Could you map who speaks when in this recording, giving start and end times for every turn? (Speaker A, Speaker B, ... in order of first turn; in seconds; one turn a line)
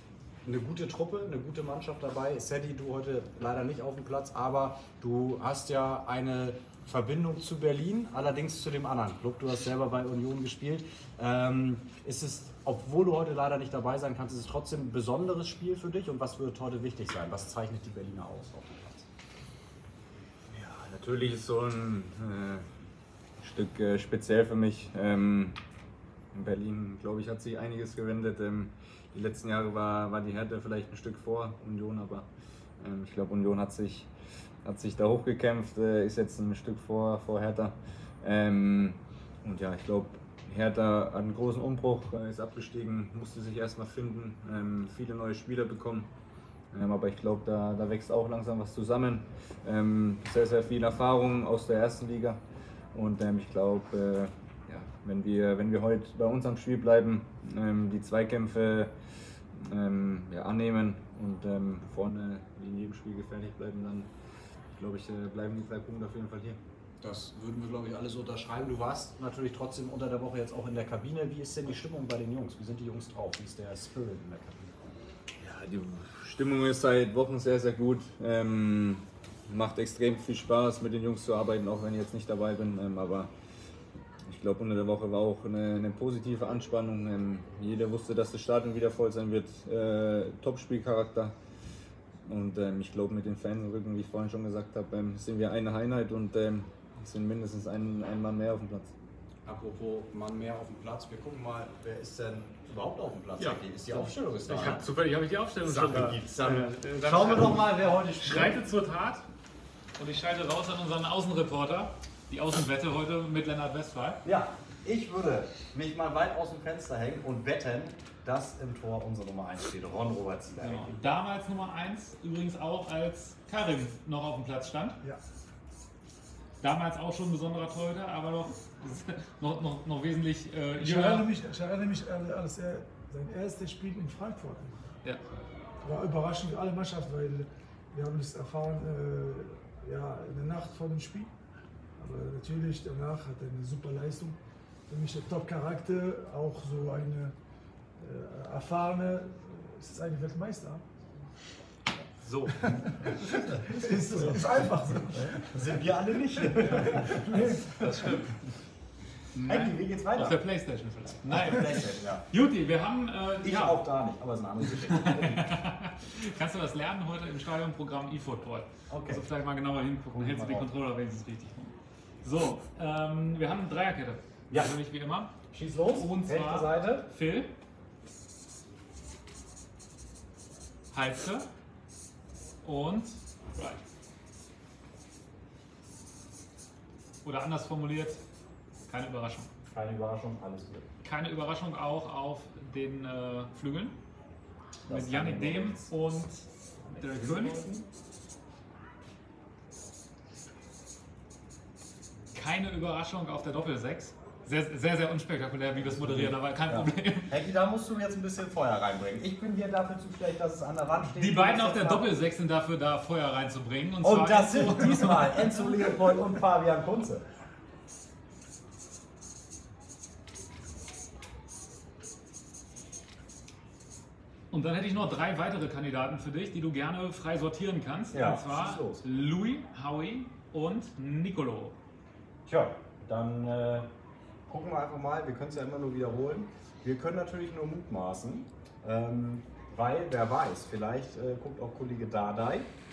Speaker A: 0.4-19.1
Speaker B: 20.5-22.6
Speaker B: 23.4-25.6
Speaker B: 26.3-32.3
Speaker B: 32.8-34.1
Speaker B: 34.6-46.1
Speaker B: 46.7-52.4
Speaker B: 52.9-58.9
Speaker B: 59.5-64.1
Speaker B: 64.8-66.6
Speaker A: 67.0-74.7
Speaker B: 75.4-83.3
Speaker B: 84.2-91.3
Speaker B: 92.2-98.9
Speaker A: 99.4-104.8
Speaker C: 103.4-109.2
Speaker A: 105.6-108.6
Speaker C: 110.0-114.2
Speaker A: 114.2-121.0
Speaker C: 120.6-125.0
Speaker C: 126.6-131.3
Speaker D: 130.8-134.7
Speaker D: 135.8-141.3
Speaker D: 142.0-144.4
Speaker D: 144.9-147.3
Speaker D: 148.0-150.9
Speaker C: 152.2-152.9
Speaker D: 152.6-155.7
Speaker A: 155.4-158.2
Speaker D: 156.5-158.2
Speaker C: 157.8-158.2
Speaker C: 159.3-163.8
Speaker A: 159.4-160.4
Speaker A: 161.2-162.2
Speaker A: 163.4-165.4
Speaker C: 164.6-175.3
Speaker A: 168.9-169.2
Speaker A: 170.2-170.7
Speaker A: 175.5-177.1
Speaker C: 175.9-177.5
Speaker C: 180.9-181.5
Speaker C: 182.6-183.8
Speaker C: 187.2-188.2
Speaker C: 188.9-189.5
Speaker A: 189.7-190.8
Speaker C: 191.0-193.9
Speaker A: 194.9-195.9
Speaker C: 194.9-197.7
Speaker A: 196.8-197.8
Speaker C: 202.3-207.4
Speaker A: 206.0-212.1
Speaker C: 211.0-215.6
Speaker A: 214.0-217.2
Speaker C: 224.5-231.8
Speaker A: 228.1-229.0
Speaker A: 232.4-233.9
Speaker A: 234.5-242.7